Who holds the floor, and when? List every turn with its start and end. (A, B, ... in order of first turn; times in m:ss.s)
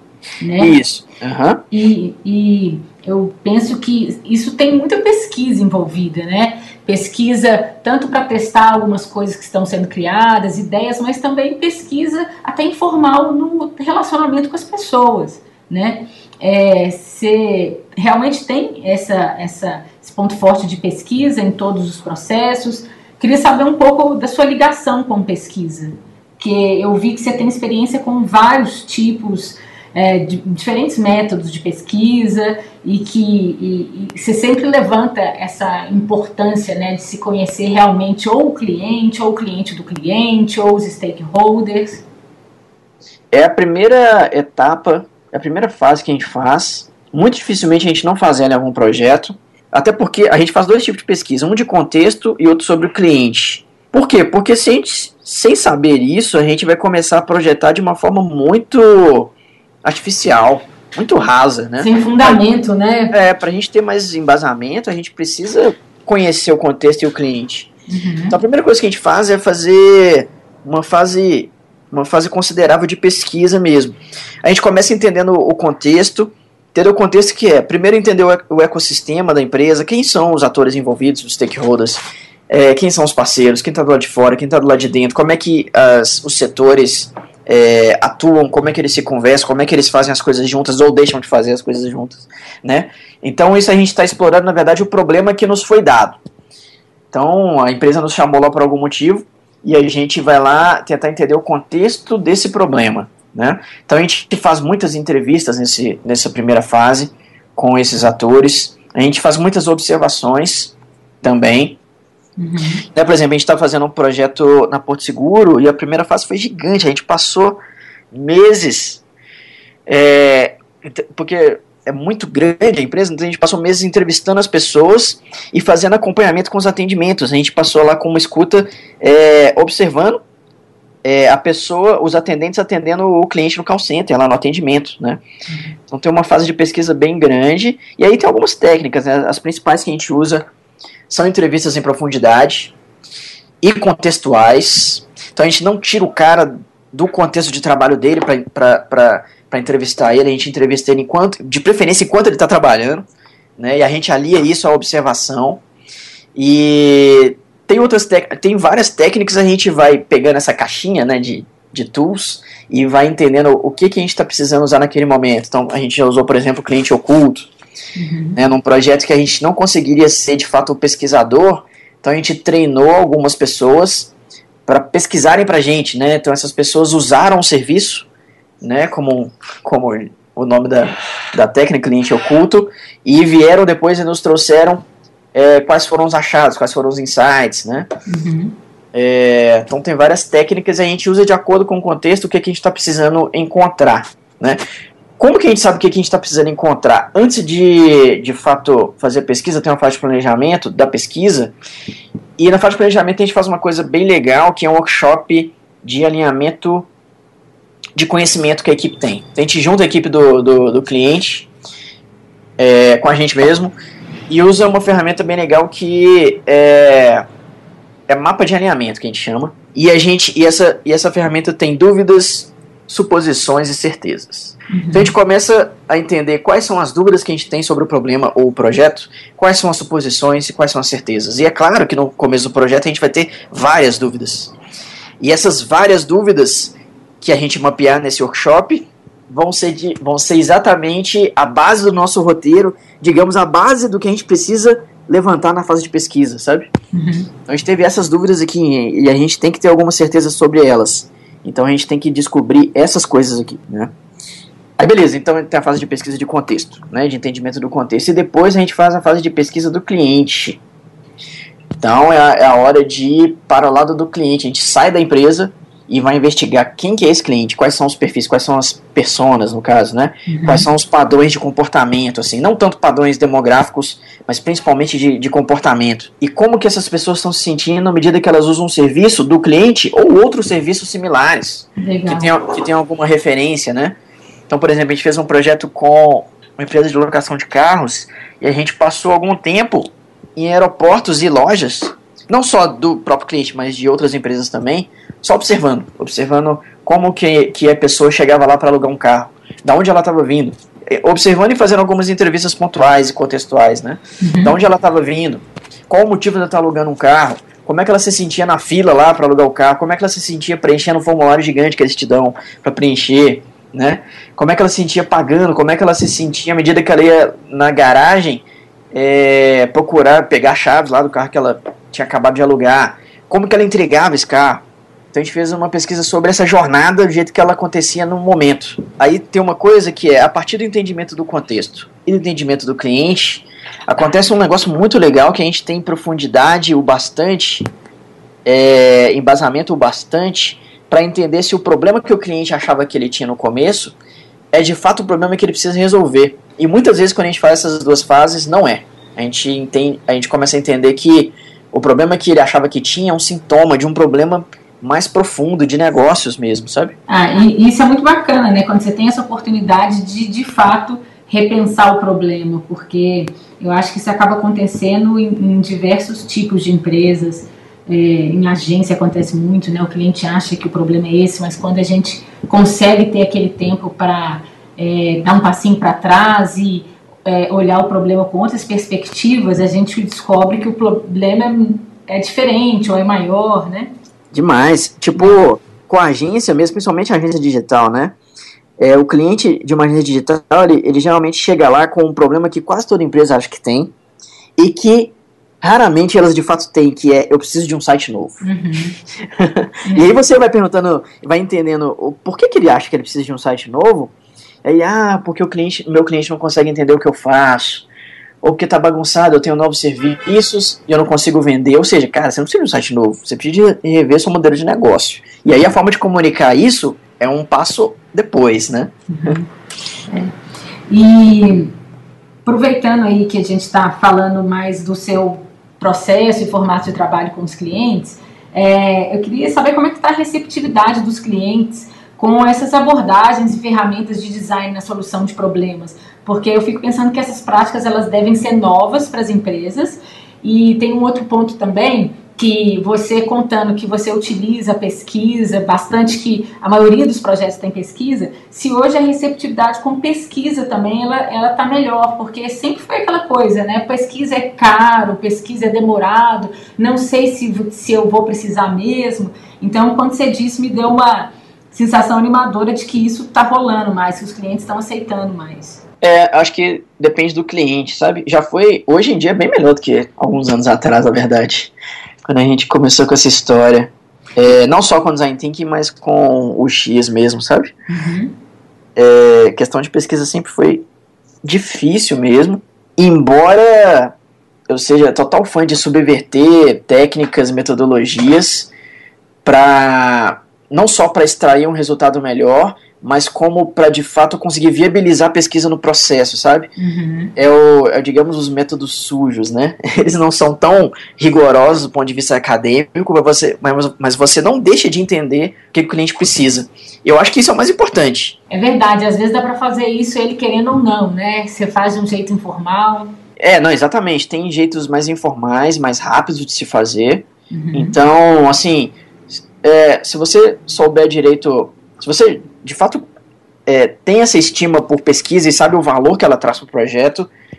0:00.4-0:00.8 A
0:00.6-0:01.6 B
0:01.7-0:42.0 A
0:43.3-0:59.3 B
0:59.8-1:02.4 B
1:01.8-1:03.1 A
1:03.1-1:07.7 B
1:07.9-1:08.4 A
1:08.3-1:36.2 B
1:37.1-1:51.8 B
1:52.4-1:52.8 A
1:52.9-1:57.6 B
1:58.1-1:59.0 B
1:59.9-2:10.2 B
2:11.0-2:15.2 B
2:15.5-2:15.8 A
2:15.9-2:20.4 B
2:21.1-2:22.7 B
2:23.6-2:33.1 B
2:33.6-2:35.6 B
2:36.4-2:47.5 B
2:48.0-2:48.4 A
2:48.4-2:54.1 B
2:54.7-2:58.1 B
2:58.6-3:04.8 B
3:05.3-3:07.9 B
3:08.1-3:08.6 A
3:08.9-3:14.6 B
3:15.2-3:21.5 B
3:22.4-3:26.9 B
3:28.0-3:31.5 B
3:32.6-3:33.8 B
3:34.3-3:37.2 B
3:38.1-3:54.5 B
3:44.7-3:45.1 A
3:55.2-4:06.7 B
4:06.9-4:07.3 A
4:07.5-4:13.9 B
4:14.8-4:20.6 B
4:21.8-4:44.0 B
4:30.3-4:30.7 A
4:41.8-4:42.4 A
4:44.5-5:37.7 B
5:04.2-5:04.6 A
5:38.4-5:44.0 B
5:44.5-5:57.0 B
5:57.1-6:23.9 A
6:24.3-6:28.2 B
6:25.2-6:25.4 A
6:28.8-6:33.9 B
6:34.6-6:38.4 B
6:38.4-6:39.0 A
6:39.3-6:44.1 B
6:39.9-6:40.2 A
6:44.6-6:47.9 B
6:48.4-6:59.3 B
6:59.1-6:59.5 A
7:00.1-7:00.3 A
7:00.9-7:01.7 A
7:02.4-7:45.8 A
7:46.0-7:51.7 B
7:52.3-7:57.7 B
7:57.9-7:58.4 A
7:59.0-8:00.8 B
8:01.4-8:04.1 B
8:04.7-8:08.7 B
8:09.4-8:16.7 B
8:16.8-8:17.3 A
8:17.4-8:28.4 B
8:28.5-8:33.1 A
8:33.4-8:39.0 B
8:37.5-8:38.0 A
8:39.6-8:43.0 B
8:43.7-8:47.3 B